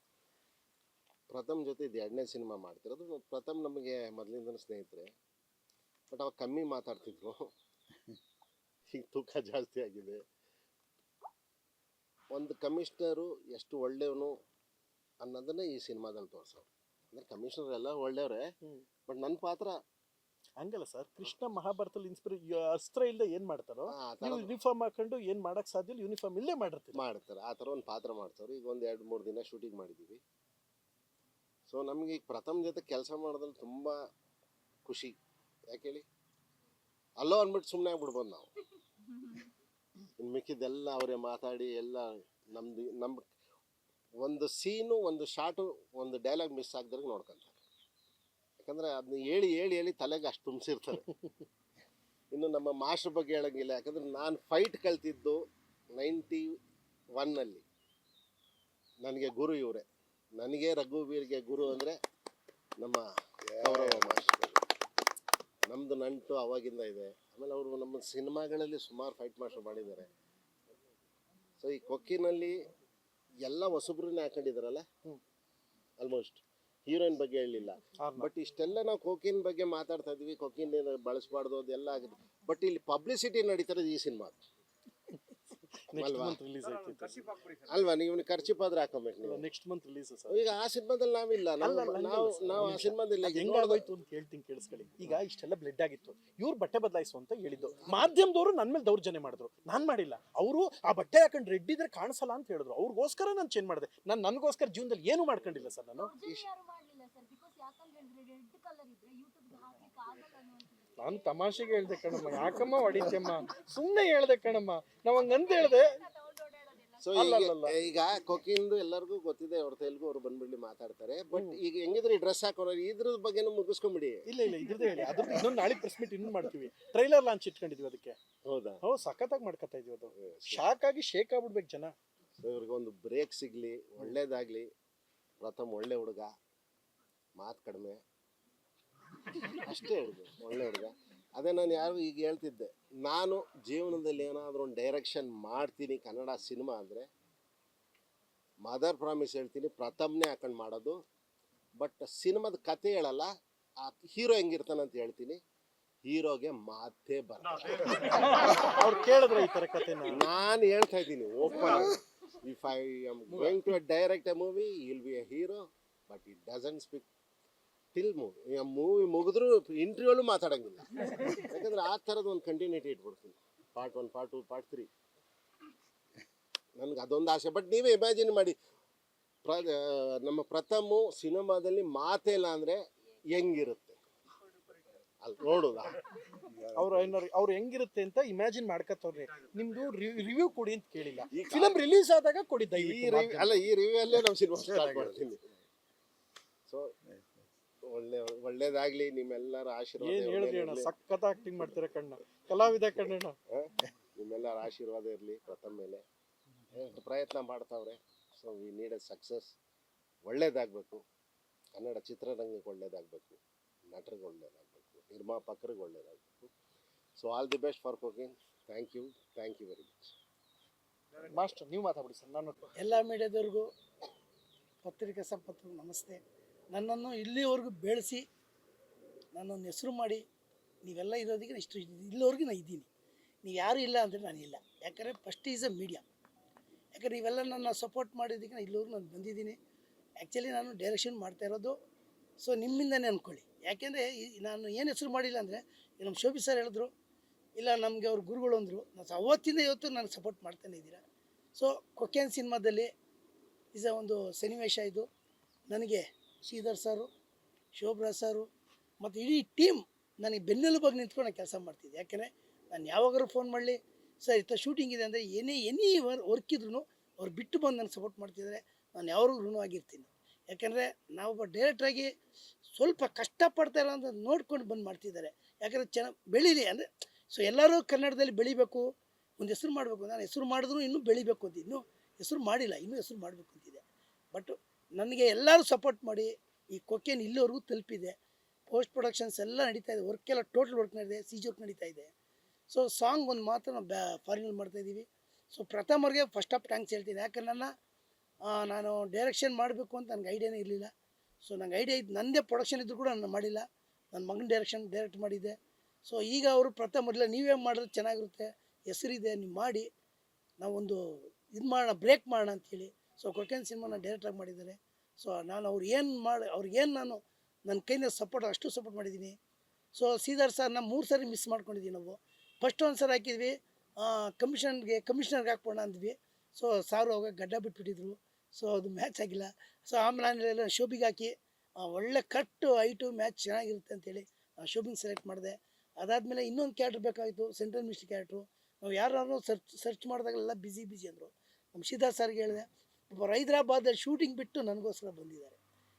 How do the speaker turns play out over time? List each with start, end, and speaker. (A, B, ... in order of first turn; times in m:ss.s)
0:01.3-0:05.1 A
0:06.1-0:07.5 A
0:08.9-0:10.2 A
0:12.3-0:14.4 A
0:15.2-0:18.5 A
0:19.1-0:19.8 A
0:20.6-0:27.0 B
0:23.9-0:24.6 A
0:26.9-0:30.2 A
0:31.7-0:34.0 A
0:34.8-0:35.2 A
0:35.7-0:36.0 A
0:37.2-0:38.5 A
0:40.2-0:43.2 A
0:44.2-0:47.6 A
0:48.6-0:51.1 A
0:52.3-0:55.4 A
0:56.0-0:56.5 A
0:57.2-0:57.6 A
0:59.0-0:59.8 A
1:00.4-1:02.0 A
1:02.8-1:03.0 A
1:03.6-1:04.6 A
1:05.7-1:10.1 A
1:11.6-1:12.6 A
1:13.4-1:14.8 A
1:16.0-1:24.4 A
1:18.0-1:18.3 B
1:25.9-1:27.3 B
1:25.9-1:26.4 A
1:27.4-1:29.5 A
1:29.2-1:30.3 B
1:30.3-1:33.9 A
1:31.6-1:46.2 B
1:46.0-1:51.4 C
1:51.0-1:56.0 B
1:52.1-1:53.4 C
1:55.4-1:57.1 C
1:57.0-2:04.2 A
1:57.2-1:57.8 B
2:04.3-2:08.2 B
2:08.4-2:08.8 A
2:08.8-2:11.9 B
2:10.2-2:10.7 A
2:12.4-2:14.7 A
2:15.4-2:16.3 A
2:17.4-2:18.0 A
2:19.4-2:27.1 A
2:28.6-2:31.0 A
2:31.8-2:33.3 A
2:33.8-2:35.4 A
2:36.0-2:38.6 A
2:37.9-2:40.2 B
2:40.1-2:47.1 A
2:48.0-2:54.9 A
2:56.8-2:58.6 A
2:59.4-3:02.8 A
3:03.3-3:04.0 A
3:05.2-3:06.0 A
3:06.7-3:13.5 B
3:11.3-3:11.8 A
3:12.7-3:15.5 A
3:17.9-3:20.9 A
3:20.0-3:23.4 B
3:23.5-3:26.0 A
3:26.7-3:29.6 A
3:30.3-3:31.0 A
3:31.8-3:36.5 A
3:37.2-3:40.2 A
3:41.2-3:42.6 B
3:42.8-3:43.7 D
3:44.8-3:46.2 D
3:46.7-3:48.2 D
3:49.3-3:50.2 D
3:50.8-3:52.9 D
3:53.4-3:56.0 D
3:56.9-3:59.6 D
4:00.2-4:01.8 D
4:02.4-4:06.9 D
4:07.6-4:11.0 D
4:11.6-4:12.9 D
4:13.7-4:15.1 D
4:15.7-4:17.1 D
4:17.8-4:18.5 D
4:19.0-4:32.1 D
4:32.8-4:38.9 D
4:39.4-4:48.1 D
4:48.7-4:52.1 D
4:52.7-4:57.7 D
4:58.5-5:00.9 D
5:01.4-5:05.5 D
5:06.0-5:09.9 D
5:10.6-5:19.4 D
5:20.0-5:45.6 D